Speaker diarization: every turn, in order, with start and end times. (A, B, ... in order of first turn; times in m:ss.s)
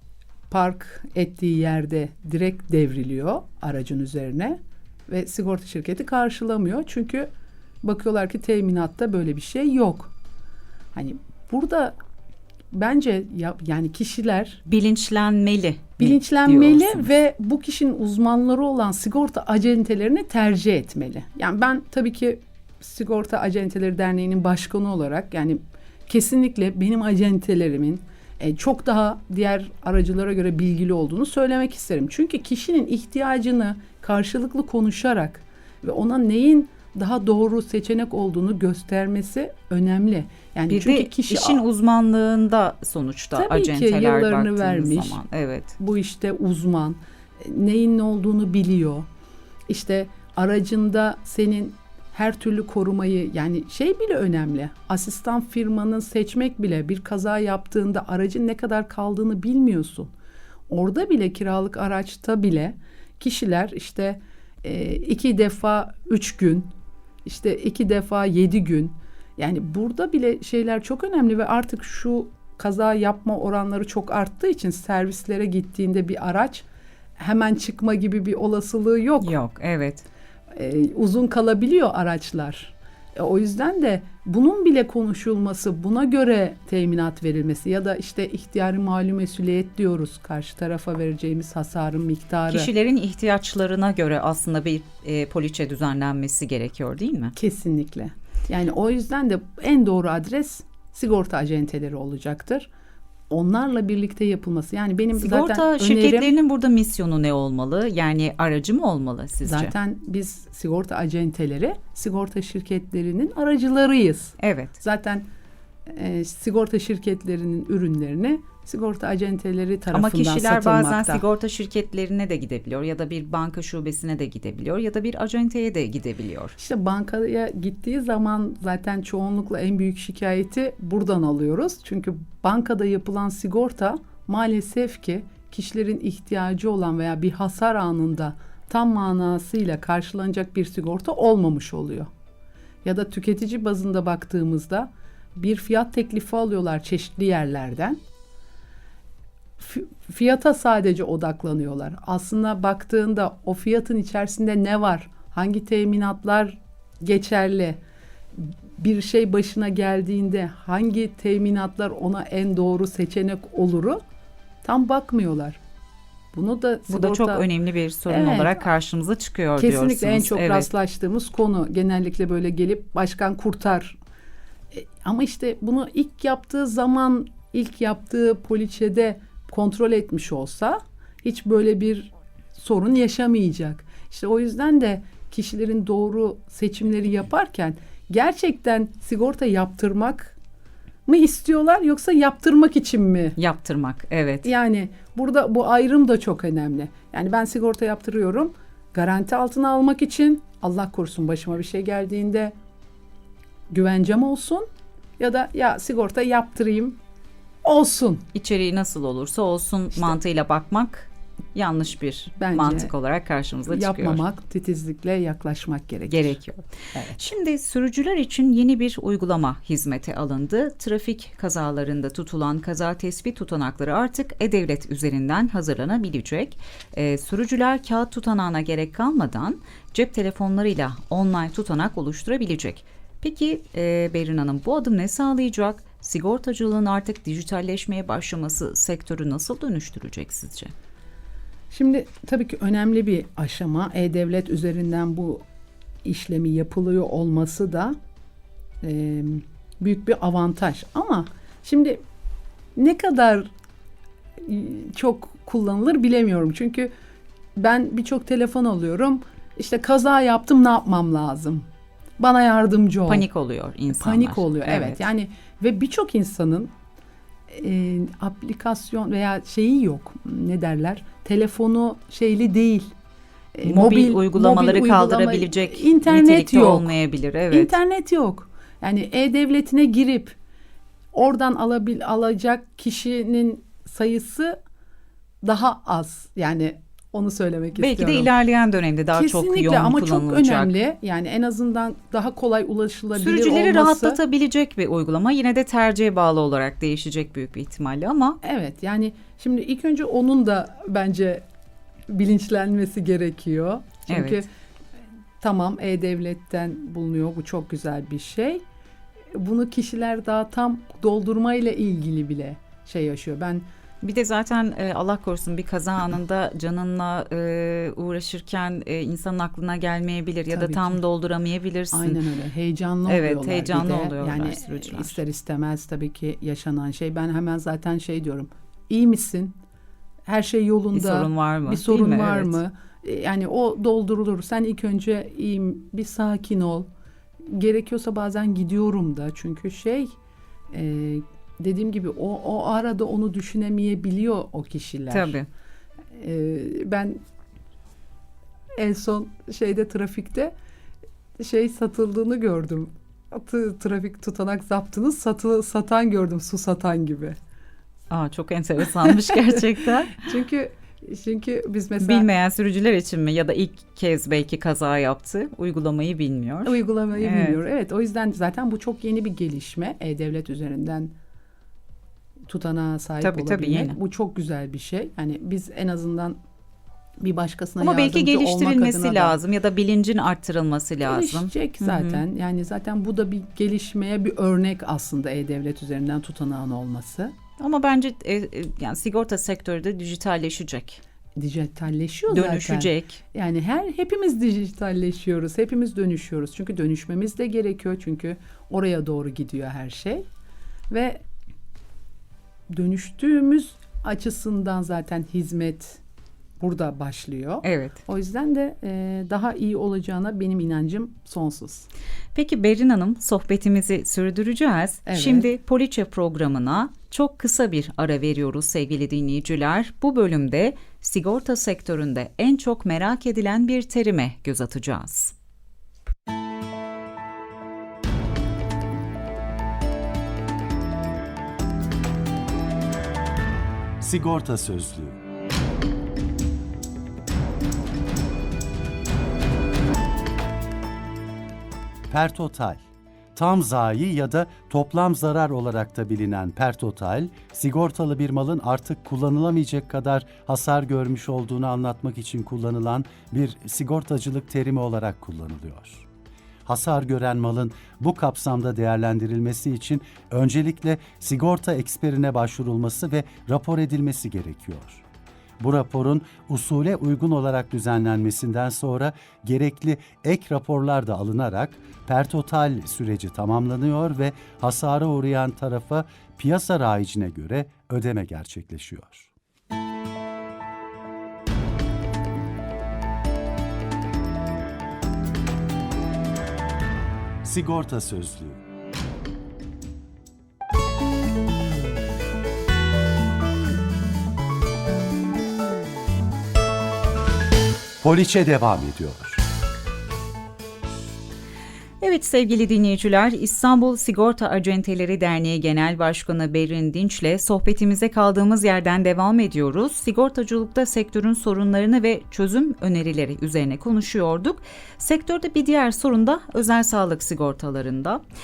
0:00.5-0:07.3 A
0:07.8-0:10.1 A
0:10.9-0:12.0 A
0:12.7-0:14.6 A
0:14.7-0:17.1 B
0:16.0-0:41.6 A
0:40.7-0:45.7 B
0:43.4-0:45.2 A
0:45.8-0:49.1 A
0:49.7-1:00.1 A
1:00.7-1:06.7 A
1:07.2-1:16.6 A
1:17.2-1:19.4 A
1:19.2-1:20.1 B
1:20.5-1:32.7 A
1:32.5-1:37.3 B
1:37.4-1:42.7 A
1:43.3-1:46.3 A
1:45.2-1:49.7 B
1:49.4-1:55.3 A
1:54.4-1:54.8 B
1:55.9-2:01.2 A
1:59.9-2:06.6 B
2:06.6-2:22.1 A
2:22.8-2:28.0 A
2:29.6-2:37.8 A
2:38.4-2:44.0 A
2:44.6-2:45.6 A
2:46.3-2:47.5 A
2:46.9-2:50.7 B
2:48.1-2:48.7 A
2:49.6-2:54.0 A
2:54.7-3:10.4 A
3:11.1-3:13.4 A
3:13.4-3:14.5 B
3:14.4-3:22.5 A
3:23.7-3:24.7 A
3:25.2-3:27.0 A
3:27.6-3:28.2 A
3:28.3-3:34.2 B
3:32.4-3:32.9 A
3:33.7-3:36.4 A
3:36.1-4:00.7 B
3:36.9-3:37.2 A
4:01.7-4:05.4 A
4:06.0-4:08.0 A
4:08.8-4:12.0 A
4:12.8-4:13.5 A
4:14.4-4:16.9 A
4:17.6-4:21.7 A
4:22.2-4:23.3 A
4:23.1-4:25.0 B
4:23.9-4:26.7 A
4:27.5-4:32.9 A
4:33.6-4:37.0 A
4:33.6-4:37.8 B
4:37.5-4:40.4 A
4:41.1-4:44.6 A
4:45.4-4:48.3 A
4:47.8-4:50.7 B
4:49.1-4:54.2 A
4:53.2-4:58.4 B
4:58.4-5:01.4 A
5:02.1-5:04.5 A
5:04.1-5:04.4 B
5:05.4-5:08.6 A
5:09.3-5:13.6 A
5:14.0-5:22.2 B
5:20.5-5:21.0 A
5:21.9-5:29.6 A
5:23.1-5:25.2 B
5:30.3-5:36.9 A
5:30.9-5:32.6 B
5:37.5-5:40.2 A
5:40.7-5:45.4 A
5:45.1-5:45.5 B
5:46.1-5:47.2 A
5:48.8-5:50.5 A
5:51.4-5:57.4 A
5:58.1-6:00.2 B
5:59.1-5:59.4 A
6:00.2-6:02.3 A
6:02.0-6:07.6 B
6:06.6-6:11.1 A
6:12.5-6:16.4 A
6:13.2-6:14.0 B
6:17.2-6:19.4 A
6:17.8-6:22.2 B
6:21.0-6:27.4 A
6:27.6-6:31.0 B
6:31.4-6:40.3 A
6:32.3-6:33.2 B
6:40.9-6:41.2 A
6:42.7-6:46.0 A
6:46.6-6:51.9 A
6:47.6-6:48.0 B
6:52.4-7:05.3 B
6:55.1-6:55.5 A
7:14.0-7:15.2 C
7:22.1-7:22.8 C
7:23.4-7:36.0 C
7:36.7-7:45.0 C
7:45.6-7:59.3 C
8:07.4-8:08.6 C
8:18.0-8:19.4 C
8:22.0-8:38.2 B